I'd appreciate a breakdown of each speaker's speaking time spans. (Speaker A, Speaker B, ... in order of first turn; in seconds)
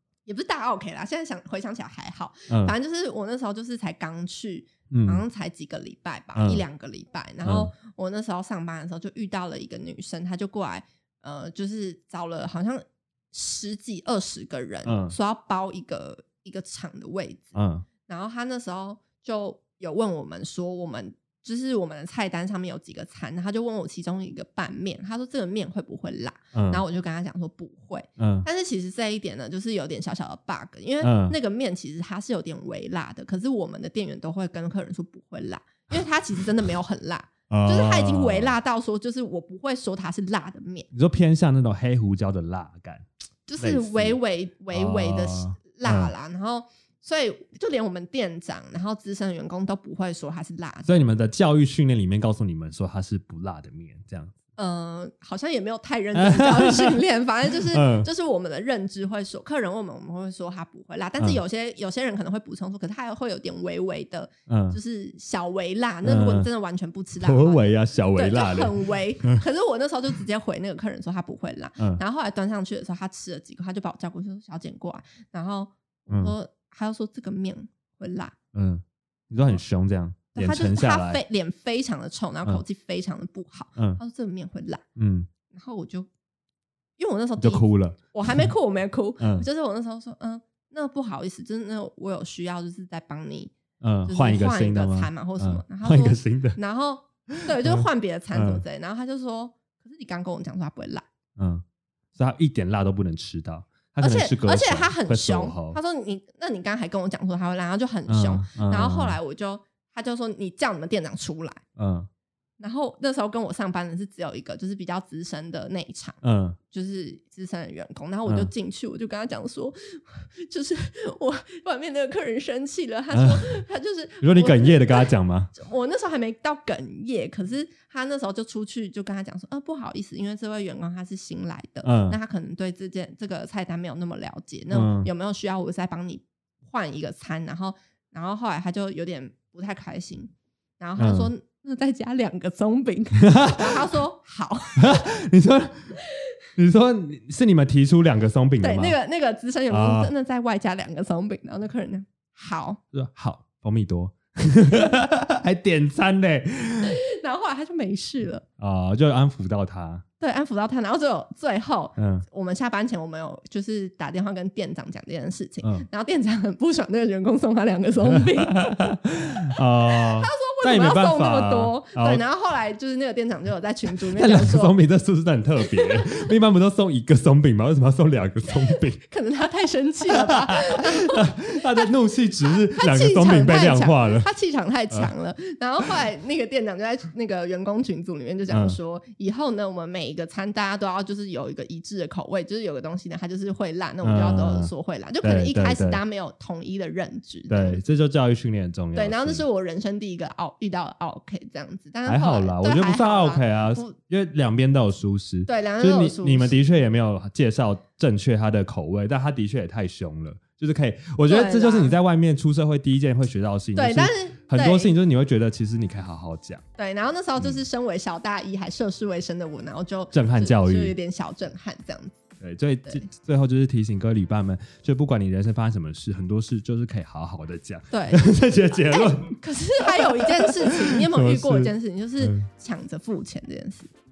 Speaker A: 0.2-40.9, 43.5-50.9, 54.6-67.6, 68.1-78.3, 80.3-84.8, 85.5-86.1, 87.0-93.5, 94.0-101.0, 104.0-111.6, 112.6-116.2, 116.7-145.1, 148.6-152.8, 156.8-158.4, 160.2-168.9, 169.8-174.8, 175.7-176.2, 178.7-181.9, 182.4-197.8, 198.9-204.0, 205.5-206.6, 211.3-211.9, 213.7-214.9, 216.8-222.2, 227.9-233.9
Speaker B: 2.5-2.7, 4.9-5.2, 6.3-6.6, 7.4-7.7, 14.8-15.1, 17.6-17.8, 26.5-26.8, 28.2-28.5, 31.0-31.4, 37.5-38.5, 40.9-43.0, 43.6-44.2, 44.7-46.1, 50.9-54.4, 56.1-57.0, 57.7-58.1, 64.5-64.8, 66.0-66.5, 67.2-69.4, 78.5-81.2, 85.0-85.3, 87.4-88.5, 89.2-89.5, 93.8-96.6, 97.3-98.6, 101.4-101.6, 102.1-105.8, 108.1-109.2, 111.8-112.1, 116.2-116.6, 123.1-123.6, 124.2-125.5, 131.8-132.2, 134.7-135.1, 141.0-141.3, 143.2-143.8, 144.8-145.9, 146.6-149.0, 149.7-150.1, 152.9-157.0, 158.6-160.0, 162.0-162.2, 168.1-172.2, 173.9-179.0, 180.1-184.3, 188.5-188.8, 194.0-194.7, 195.2-196.0, 197.5-199.4, 202.1-216.6, 220.1-220.9, 222.4-232.4